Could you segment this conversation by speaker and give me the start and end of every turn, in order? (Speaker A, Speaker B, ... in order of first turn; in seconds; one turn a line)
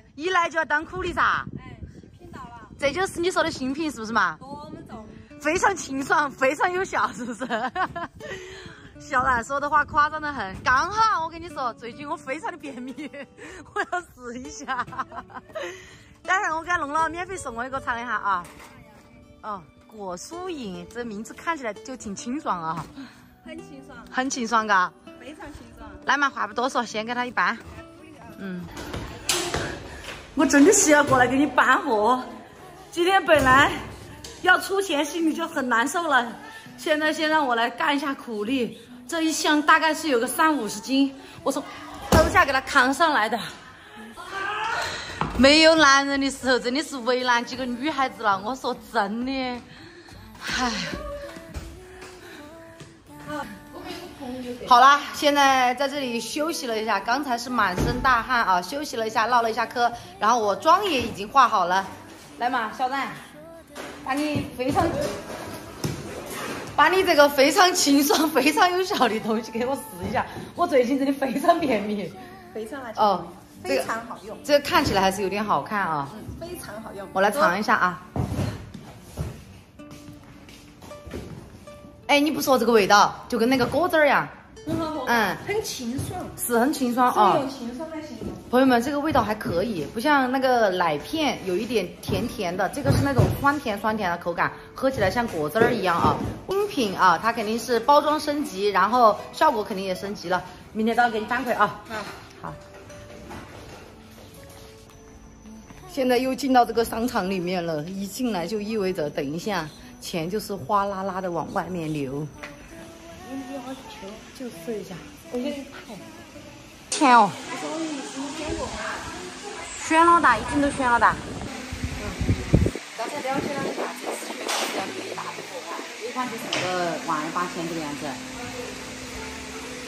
Speaker A: 0.1-1.5
Speaker B: 2.2-2.7
Speaker A: 2.8-4.4
Speaker B: 4.5-5.2
Speaker A: 5.4-18.5
Speaker A: 19.4-22.9
Speaker B: 23.4-24.1
Speaker A: 24.1-24.9
Speaker B: 25.2-26.0
Speaker A: 26.0-27.6
Speaker A: 28.4-28.7
Speaker A: 30.3-32.3
Speaker A: 32.9-33.9
Speaker A: 34.4-43.5
Speaker A: 45.1-49.6
Speaker A: 50.4-51.0
Speaker B: 53.3-54.7
Speaker A: 54.6-63.2
Speaker A: 64.0-65.2
Speaker A: 66.7-72.2
Speaker B: 72.5-74.4
Speaker A: 73.0-73.9
Speaker A: 74.4-76.2
Speaker B: 76.2-77.5
Speaker A: 77.1-78.0
Speaker A: 82.1-84.3
Speaker B: 84.7-86.3
Speaker A: 85.0-85.4
Speaker A: 86.4-87.5
Speaker B: 87.1-88.4
Speaker A: 88.5-101.8
Speaker A: 105.9-112.3
Speaker B: 113.2-114.3
Speaker A: 114.3-115.1
Speaker B: 115.3-116.1
Speaker A: 116.9-117.4
Speaker B: 117.5-119.1
Speaker A: 119.7-121.2
Speaker A: 123.0-128.2